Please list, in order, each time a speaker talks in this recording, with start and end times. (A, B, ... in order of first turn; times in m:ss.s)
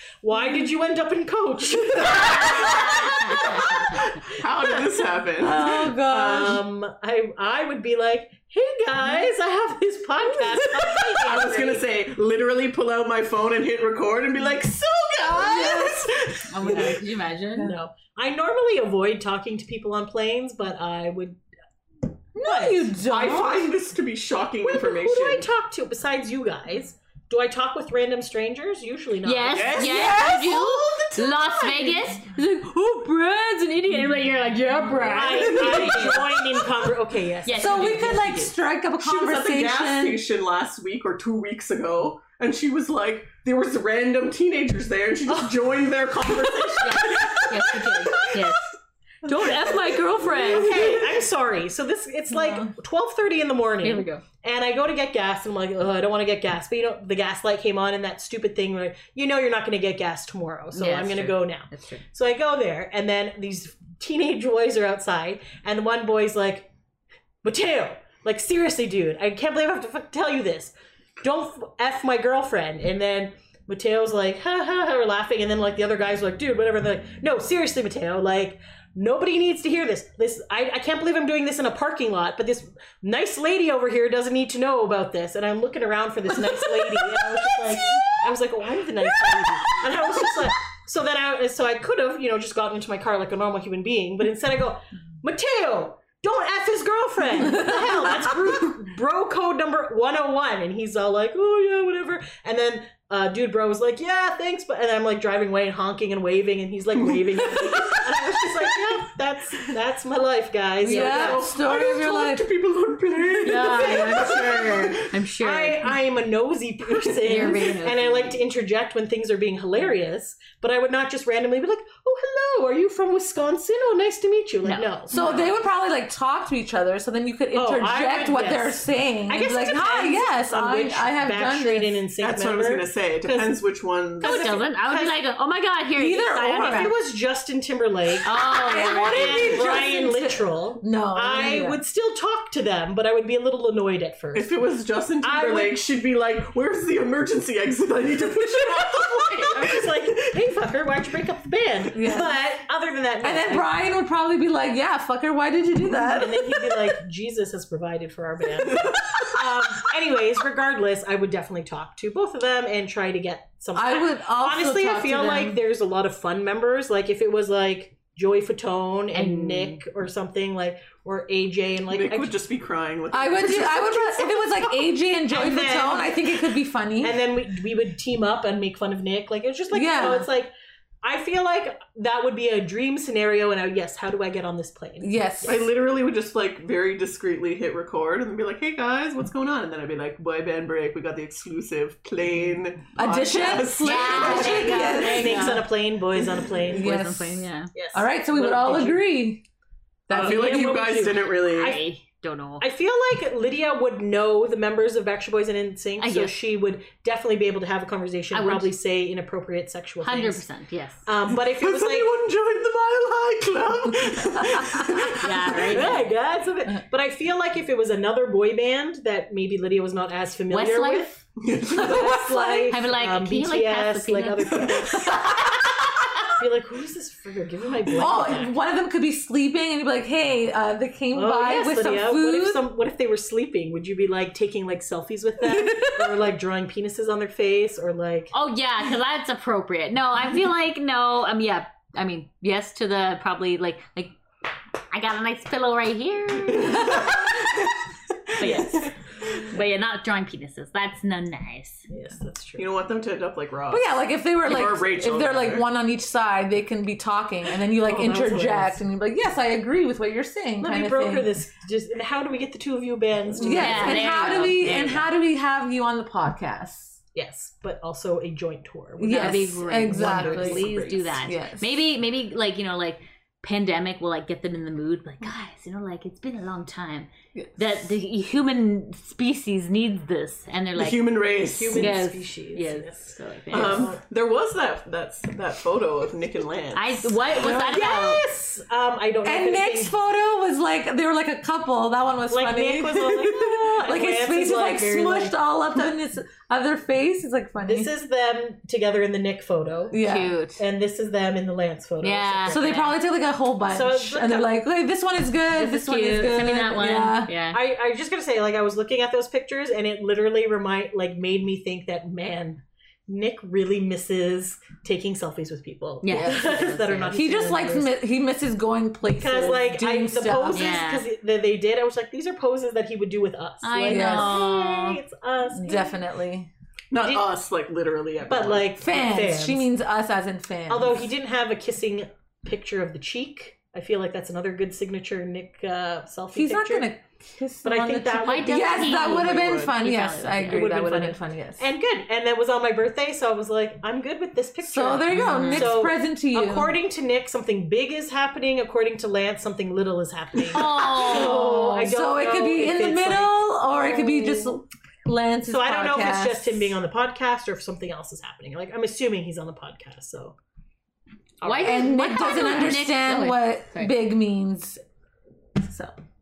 0:00.2-0:04.1 A
0:02.2-0:02.7 B
0:02.5-0:03.4 C
0:04.3-0:06.6 B
0:05.4-0:06.6 D
0:06.1-0:11.8 A
0:11.2-0:17.0 B
0:15.2-0:16.1 D
0:16.5-0:17.7 C
0:17.6-0:21.4 A
0:22.4-0:23.7 D
0:22.4-0:23.0 A
0:23.0-0:25.5 B
0:24.6-0:30.0 A
0:29.2-0:36.4 C
0:29.5-0:32.1 B
0:29.9-0:30.4 D
0:35.0-0:38.4 A
0:35.6-0:36.0 B
0:37.4-0:38.5 C
0:37.6-0:40.2 D
0:39.0-0:48.7 B
0:46.8-0:48.7 C
0:49.2-0:50.8 C
0:49.3-0:51.2 B
0:50.4-1:06.7 A
0:52.3-0:52.7 D
0:53.8-0:54.2 C
1:00.7-1:02.0 C
1:07.4-1:51.5 A
1:26.5-1:27.2 D
1:37.4-1:38.3 D
1:50.8-1:52.4 D
1:50.9-1:55.1 B
1:53.4-1:56.0 C
1:55.4-2:05.4 A
1:57.2-1:58.4 C
2:04.6-2:05.0 C
2:05.1-2:12.0 D
2:05.1-2:05.5 B
2:07.5-2:13.6 A
2:12.2-2:14.5 B
2:14.2-2:15.2 A
2:14.2-2:17.0 C
2:16.0-2:16.9 D
2:16.6-2:24.5 A
2:18.2-2:19.9 C
2:18.4-2:21.8 D
2:24.4-2:30.1 B
2:25.2-2:25.8 A
2:28.8-2:33.7 A
2:31.9-2:32.4 D
2:33.2-2:36.9 D
2:35.9-2:52.4 A
2:38.8-2:39.2 B
2:43.8-2:45.6 D
2:49.1-2:49.8 C
2:51.9-2:54.8 B
2:53.1-2:57.2 D
2:55.3-2:56.5 A
2:57.0-3:00.5 A
2:59.7-3:00.3 D
3:01.0-3:05.7 A
3:05.0-3:05.6 D
3:05.4-3:14.9 B
3:13.0-3:15.7 D
3:13.8-3:15.7 C
3:14.4-3:16.9 A
3:16.7-3:19.4 D
3:16.7-3:17.7 C
3:17.7-3:19.1 A
3:20.1-3:20.8 D
3:20.1-3:21.8 A
3:20.1-3:21.8 B
3:21.5-3:22.6 C
3:22.6-3:30.5 A
3:26.0-3:26.4 C
3:28.3-3:28.7 C
3:30.0-3:31.1 C
3:31.1-3:32.1 A
3:31.3-3:35.8 B
3:34.4-3:35.0 D
3:35.1-3:36.1 C
3:35.6-3:45.4 A
3:40.5-3:41.2 C
3:41.4-3:42.1 B
3:41.6-3:42.8 D
3:42.7-3:44.7 C
3:45.0-3:45.3 B
3:46.3-3:48.5 A
3:48.0-3:52.6 D
3:51.1-3:58.3 A
3:55.4-3:56.2 D
3:58.3-4:04.1 C
4:04.9-4:07.5 C
4:06.5-4:07.8 B
4:08.3-4:08.9 B
4:08.4-4:11.9 C
4:08.4-4:08.8 A
4:11.9-4:12.7 A
4:12.6-4:15.6 B
4:13.7-4:21.3 D
4:17.8-4:18.8 A
4:20.6-4:25.0 A
4:23.3-4:27.0 D
4:23.4-4:25.1 C
4:27.1-4:31.2 A
4:29.0-4:31.7 D
4:29.1-4:44.0 C
4:40.8-4:42.0 B
4:41.5-4:44.0 A
4:43.5-4:47.2 B
4:46.8-4:48.3 C
4:47.4-4:47.9 D
4:47.4-4:49.9 A
4:49.2-4:57.9 D
4:52.3-4:55.4 A
4:57.6-5:00.0 A
4:59.9-5:00.4 D
5:00.0-5:00.6 C
5:00.6-5:02.8 A
5:02.0-5:02.9 C
5:02.5-5:07.3 D
5:03.7-5:04.5 A
5:05.6-5:07.6 C
5:07.5-5:18.0 A
5:16.0-5:17.2 C
5:16.1-5:16.4 D
5:17.1-5:20.8 D
5:19.2-5:26.0 A
5:20.5-5:21.1 C
5:23.6-5:25.0 C
5:23.9-5:24.4 D
5:25.5-5:26.5 D
5:26.9-5:28.7 B
5:28.3-5:29.7 A
5:28.8-5:31.1 D
5:30.7-5:36.9 A
5:36.3-5:41.6 D
5:37.6-5:39.3 A
5:38.2-5:40.8 C
5:39.4-5:39.7 B
5:40.5-5:54.5 A
5:44.6-5:46.8 D
5:45.1-5:45.8 C
5:50.5-5:51.6 C
5:51.0-5:56.8 D
5:55.5-6:00.4 A
6:01.4-6:02.8 A
6:01.4-6:04.0 C
6:01.6-6:04.8 D
6:05.6-6:06.0 D